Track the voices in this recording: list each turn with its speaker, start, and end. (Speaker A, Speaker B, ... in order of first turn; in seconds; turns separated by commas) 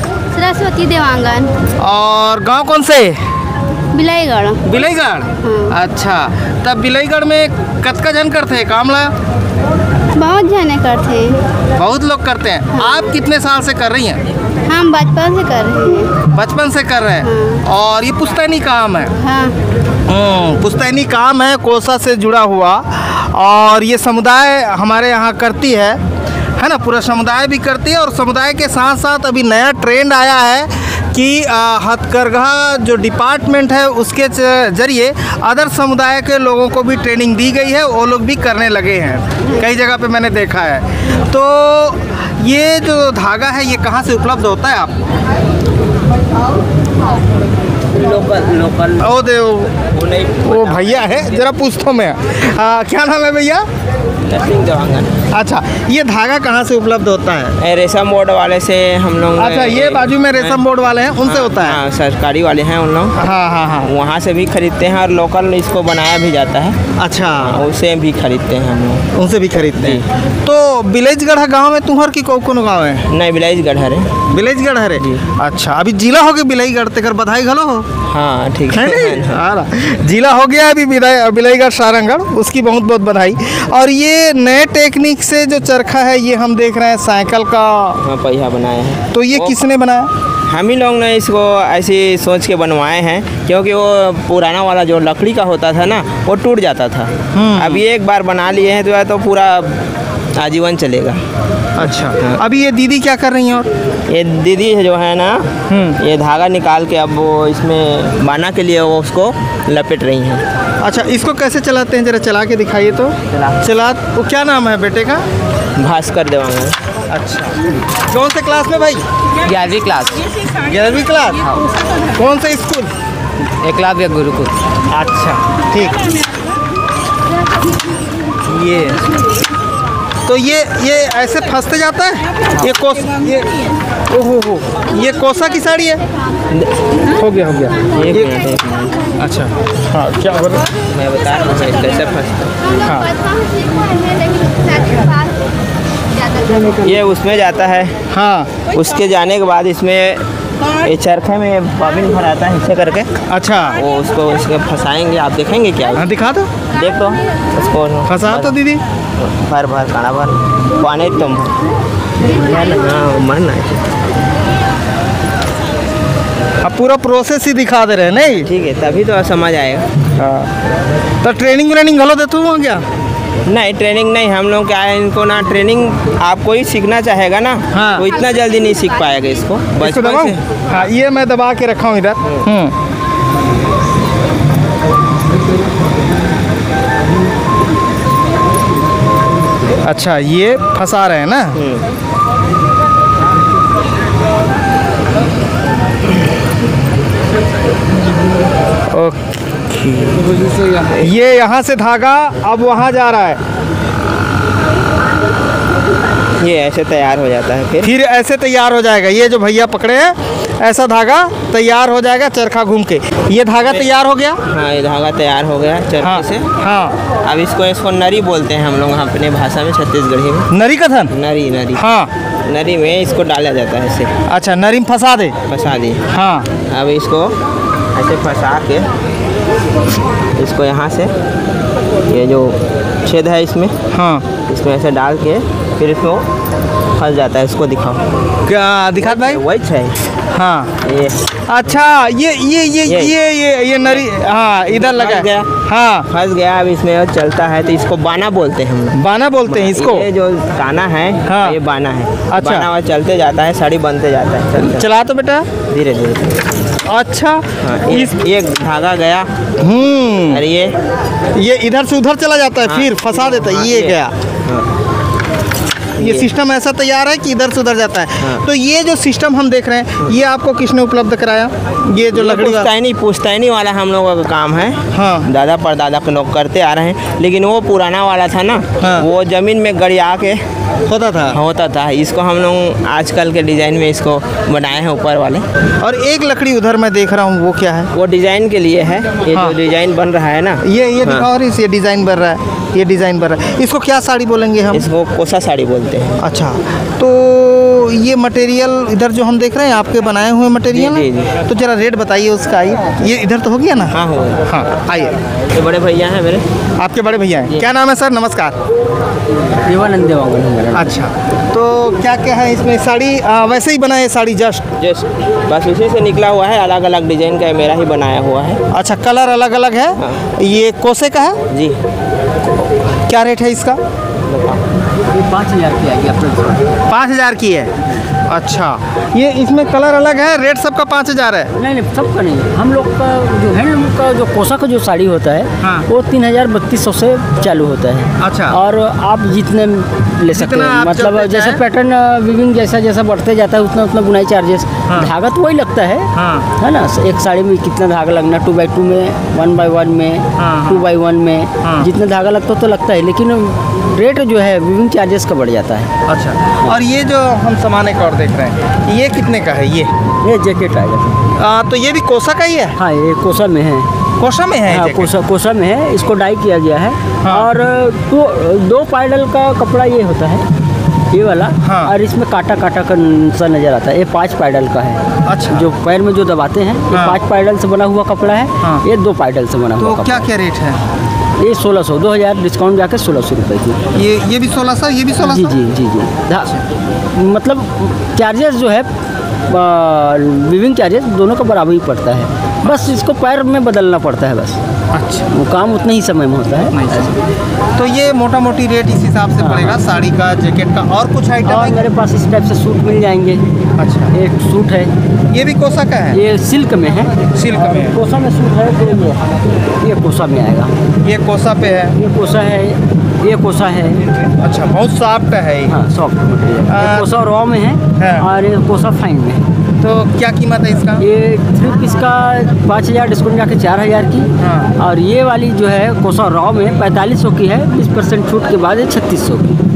Speaker A: 0.3-1.5, Speaker B: 1.8-3.2, Speaker A: 3.9-4.7, Speaker B: 4.7-9.1, Speaker A: 5.4-5.8, Speaker A: 10.1-11.4, Speaker B: 11.8-14.2, Speaker A: 12.8-13.1, Speaker A: 14.7-16.3, Speaker B: 16.2-19.1, Speaker A: 17.2-17.6, Speaker A: 19.2-19.6, Speaker B: 20.1-26.0, Speaker B: 26.6-44.9, Speaker C: 47.9-49.1, Speaker B: 49.0-49.8, Speaker C: 49.8-51.2, Speaker B: 50.5-53.7, Speaker C: 54.2-55.1, Speaker B: 55.3-57.5, Speaker C: 57.6-60.6, Speaker B: 59.4-61.8, Speaker C: 61.2-63.2, Speaker B: 63.2-63.9, Speaker C: 63.8-66.8, Speaker B: 67.0-67.6, Speaker C: 67.4-69.1, Speaker B: 69.2-73.1, Speaker C: 69.8-70.1, Speaker C: 73.1-74.2, Speaker B: 74.3-77.9, Speaker C: 78.1-79.4, Speaker B: 78.7-88.0, Speaker C: 88.0-89.6, Speaker B: 89.1-90.1, Speaker C: 90.5-101.2, Speaker B: 97.3-97.8, Speaker B: 101.8-103.7, Speaker C: 102.2-102.4, Speaker C: 104.1-105.5, Speaker B: 105.7-106.0, Speaker C: 106.0-110.4, Speaker B: 110.8-115.2, Speaker C: 113.3-113.6, Speaker C: 115.8-116.8, Speaker B: 117.1-119.0, Speaker D: 119.6-120.1, Speaker B: 120.5-121.6, Speaker B: 122.1-122.9, Speaker D: 123.7-124.4, Speaker B: 124.9-126.0, Speaker B: 128.5-129.0, Speaker B: 130.2-133.6, Speaker B: 134.1-136.0, Speaker B: 137.2-138.4, Speaker C: 137.9-139.1, Speaker B: 139.2-140.7, Speaker C: 140.8-142.6, Speaker B: 142.8-143.2, Speaker A: 143.8-145.2, Speaker C: 146.7-147.9, Speaker B: 148.1-148.5, Speaker C: 148.7-150.2, Speaker C: 150.8-153.1, Speaker B: 153.3-153.8, Speaker C: 153.7-156.0, Speaker B: 156.0-156.5, Speaker C: 156.7-158.6, Speaker B: 158.1-158.8, Speaker C: 159.2-161.6, Speaker C: 162.3-163.8, Speaker B: 166.6-168.5, Speaker C: 168.4-169.9, Speaker B: 170.2-170.5, Speaker B: 171.2-172.8, Speaker C: 173.5-180.4, Speaker B: 177.7-178.1, Speaker B: 179.8-182.7, Speaker B: 189.8-191.6, Speaker C: 191.6-191.9, Speaker B: 198.9-199.2, Speaker C: 199.7-200.9, Speaker B: 200.9-203.4, Speaker C: 206.4-207.9, Speaker B: 207.8-214.4, Speaker C: 214.5-216.5, Speaker B: 216.0-217.0, Speaker C: 217.2-220.5, Speaker B: 220.5-221.1, Speaker C: 221.1-221.8, Speaker B: 221.8-222.1, Speaker C: 222.4-224.1, Speaker B: 224.3-225.4, Speaker C: 225.5-226.1, Speaker B: 226.1-226.5, Speaker C: 226.7-227.4, Speaker C: 227.9-228.9, Speaker C: 230.4-231.1, Speaker C: 232.1-233.8, Speaker B: 233.9-234.2, Speaker C: 234.4-236.3, Speaker C: 237.0-238.0, Speaker B: 238.4-239.4, Speaker C: 239.0-240.0, Speaker B: 240.3-240.7, Speaker C: 240.8-241.3, Speaker B: 241.5-246.1, Speaker C: 242.9-243.2, Speaker C: 243.8-244.1, Speaker C: 244.7-245.5, Speaker C: 246.1-254.9, Speaker B: 248.9-250.1, Speaker B: 251.3-251.6, Speaker B: 252.3-252.7, Speaker B: 254.6-255.5, Speaker C: 255.7-256.4, Speaker B: 256.9-258.2, Speaker C: 257.6-259.3, Speaker B: 259.6-260.4, Speaker C: 260.3-260.8, Speaker B: 261.4-264.1, Speaker C: 262.6-264.7, Speaker C: 266.0-266.3, Speaker B: 266.0-272.7, Speaker C: 272.1-280.4, Speaker B: 274.9-275.3, Speaker B: 278.8-279.1, Speaker B: 280.9-281.4, Speaker C: 281.3-285.4, Speaker B: 285.8-287.9, Speaker C: 287.9-291.3, Speaker B: 289.3-289.6, Speaker B: 290.6-294.9, Speaker C: 294.7-296.2, Speaker B: 296.2-303.9, Speaker C: 300.7-301.4, Speaker C: 303.9-304.5, Speaker B: 304.5-305.2, Speaker C: 305.5-306.5, Speaker B: 306.8-308.6, Speaker D: 309.5-311.0, Speaker B: 310.7-314.7, Speaker C: 314.8-318.6, Speaker B: 318.7-321.4, Speaker C: 320.0-320.2, Speaker C: 321.5-321.8, Speaker B: 323.1-323.8, Speaker C: 324.3-324.6, Speaker D: 325.1-326.7, Speaker B: 326.9-327.7, Speaker B: 328.3-331.5, Speaker D: 331.6-355.9, Speaker B: 335.6-335.9, Speaker B: 338.2-338.6, Speaker B: 340.3-341.6, Speaker B: 346.2-346.5, Speaker B: 350.4-350.9, Speaker B: 351.6-351.9, Speaker B: 356.1-359.9, Speaker D: 360.2-361.2, Speaker B: 361.4-362.8, Speaker D: 362.8-363.9, Speaker B: 364.2-365.1, Speaker D: 364.7-370.5, Speaker B: 367.2-367.5, Speaker D: 371.1-380.3, Speaker B: 371.6-371.9, Speaker B: 375.2-375.6, Speaker B: 376.9-377.2, Speaker B: 379.8-380.8, Speaker D: 381.4-383.8, Speaker B: 383.9-385.6, Speaker D: 385.2-386.6, Speaker D: 387.1-388.9, Speaker D: 389.5-394.6, Speaker B: 394.9-395.3, Speaker D: 395.3-397.2, Speaker B: 396.7-397.1, Speaker B: 397.8-401.9, Speaker D: 399.4-399.8, Speaker D: 401.4-403.4, Speaker B: 403.8-404.1, Speaker D: 404.1-404.9, Speaker B: 405.3-406.2, Speaker D: 406.1-409.2, Speaker B: 407.3-408.0, Speaker D: 409.8-410.7, Speaker B: 411.0-412.0, Speaker D: 411.9-414.1, Speaker B: 414.2-415.8, Speaker D: 415.7-419.4, Speaker B: 416.7-417.1, Speaker B: 418.0-418.3, Speaker B: 419.8-421.0, Speaker D: 421.0-429.6, Speaker B: 424.4-424.7